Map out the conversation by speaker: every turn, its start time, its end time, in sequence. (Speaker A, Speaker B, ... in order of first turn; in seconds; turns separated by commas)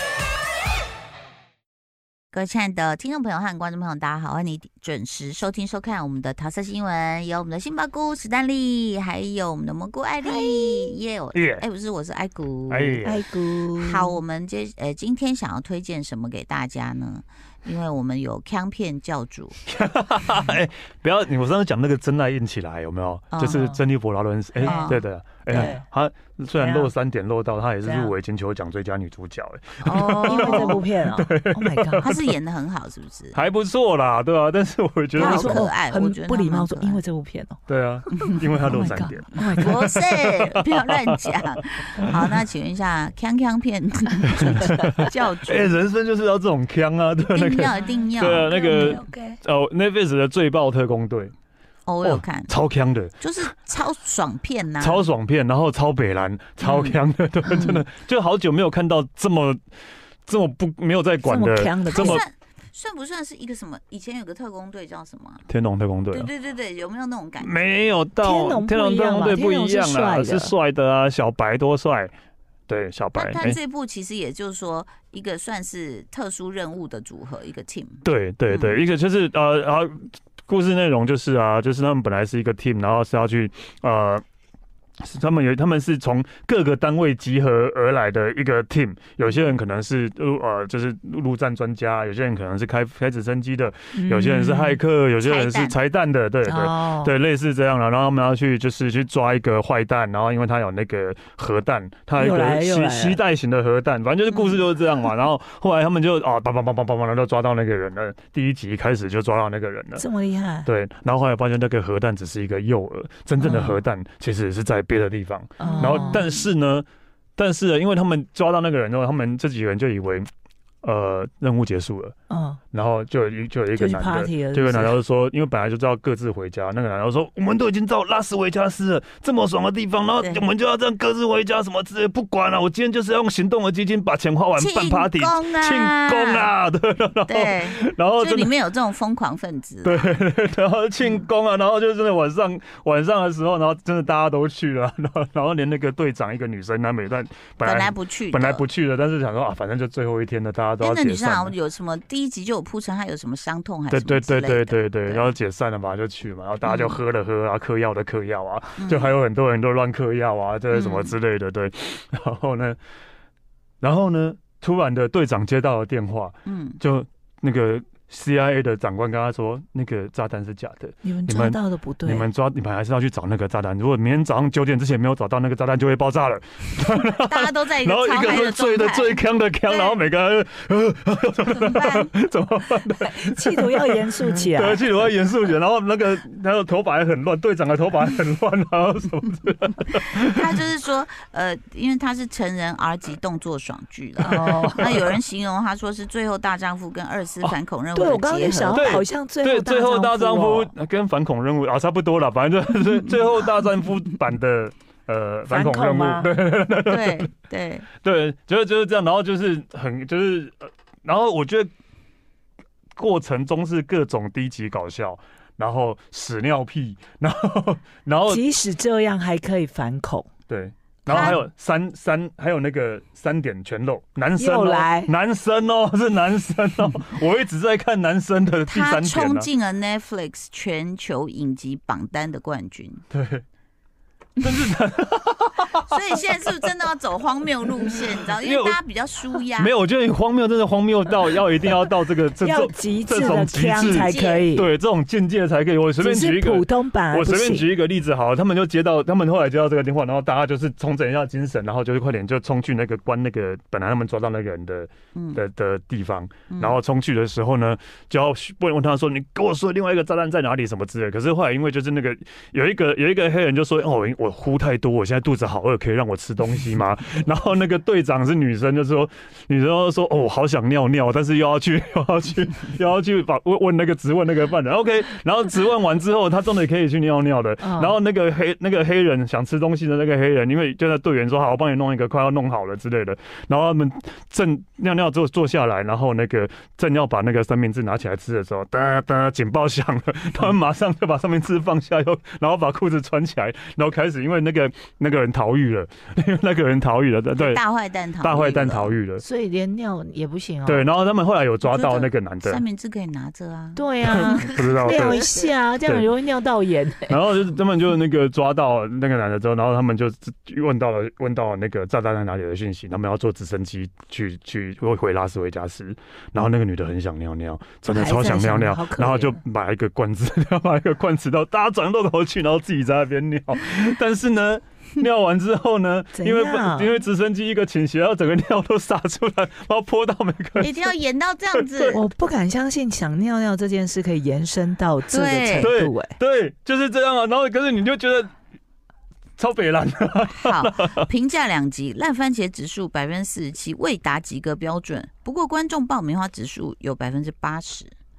Speaker A: 2.3-13.0, Speaker B: 10.2-10.9, Speaker C: 11.3-11.6, Speaker C: 12.7-13.2, Speaker B: 13.0-14.2, Speaker A: 13.8-19.6, Speaker C: 19.7-32.4, Speaker A: 23.3-23.7, Speaker B: 23.5-23.8, Speaker A: 24.6-25.7, Speaker B: 24.6-24.9, Speaker B: 25.5-25.8, Speaker B: 26.5-26.9, Speaker B: 27.8-28.1, Speaker A: 29.8-30.8, Speaker B: 30.2-32.2, Speaker A: 32.0-33.4, Speaker C: 33.3-35.7, Speaker A: 35.1-37.0, Speaker B: 35.2-40.0, Speaker C: 37.7-42.4, Speaker A: 39.4-45.7, Speaker C: 44.3-51.3, Speaker B: 44.6-45.1, Speaker A: 47.2-48.9, Speaker B: 47.8-49.4, Speaker A: 51.9-52.5, Speaker C: 52.0-53.2, Speaker A: 53.2-55.0, Speaker C: 54.8-59.6, Speaker A: 56.6-57.8, Speaker C: 60.2-62.2, Speaker B: 61.2-62.2, Speaker A: 61.9-65.4, Speaker C: 65.5-66.3, Speaker A: 66.1-67.8, Speaker C: 67.4-72.1, Speaker B: 68.2-70.5, Speaker C: 72.7-73.6, Speaker A: 73.2-78.8, Speaker C: 78.0-84.2, Speaker C: 85.0-110.0, Speaker B: 93.9-94.8, Speaker A: 95.2-95.8, Speaker B: 96.5-97.1, Speaker B: 102.2-103.2, Speaker A: 104.3-104.6, Speaker B: 110.0-110.7, Speaker C: 110.6-120.3, Speaker B: 113.4-113.7, Speaker B: 115.6-116.2, Speaker A: 115.6-116.5, Speaker C: 120.8-122.1, Speaker B: 122.3-122.6, Speaker C: 122.7-138.5, Speaker B: 123.7-124.9, Speaker A: 130.2-130.4, Speaker A: 134.6-136.5, Speaker A: 137.3-140.1, Speaker C: 139.8-151.5, Speaker A: 147.6-148.6, Speaker A: 150.8-155.3, Speaker C: 153.9-162.8, Speaker A: 156.6-157.0, Speaker A: 158.8-159.1, Speaker A: 160.7-161.1, Speaker C: 163.8-190.6, Speaker A: 166.4-166.8, Speaker B: 171.0-172.3, Speaker A: 176.9-180.0, Speaker A: 181.5-182.1, Speaker B: 182.9-184.8, Speaker A: 189.9-199.0, Speaker B: 194.2-195.0, Speaker C: 194.2-195.1, Speaker B: 197.9-200.7, Speaker C: 198.7-207.3, Speaker B: 205.5-206.3, Speaker A: 206.8-207.8, Speaker C: 207.9-211.7, Speaker C: 212.9-218.4, Speaker B: 218.3-220.3, Speaker C: 220.5-229.5, Speaker A: 221.1-221.4, Speaker B: 221.1-221.4, Speaker B: 224.3-225.1, Speaker A: 228.7-233.0, Speaker C: 233.1-233.4, Speaker C: 234.4-236.7, Speaker A: 235.8-239.7, Speaker C: 237.8-238.8, Speaker C: 239.5-297.6, Speaker B: 242.4-244.7, Speaker A: 243.8-244.5, Speaker B: 246.0-247.7, Speaker A: 255.1-255.4, Speaker A: 256.5-256.8, Speaker B: 277.6-277.9, Speaker A: 297.4-299.0, Speaker C: 298.2-299.2, Speaker B: 299.2-300.9, Speaker C: 300.6-302.6, Speaker A: 301.6-305.5, Speaker B: 303.8-307.2, Speaker C: 304.1-305.2, Speaker C: 307.1-330.9, Speaker B: 317.9-319.4, Speaker B: 326.1-326.9, Speaker A: 330.6-332.0, Speaker C: 331.5-332.0, Speaker B: 331.9-336.1, Speaker A: 335.1-335.7, Speaker C: 335.6-338.3, Speaker C: 339.4-341.1, Speaker A: 340.3-347.9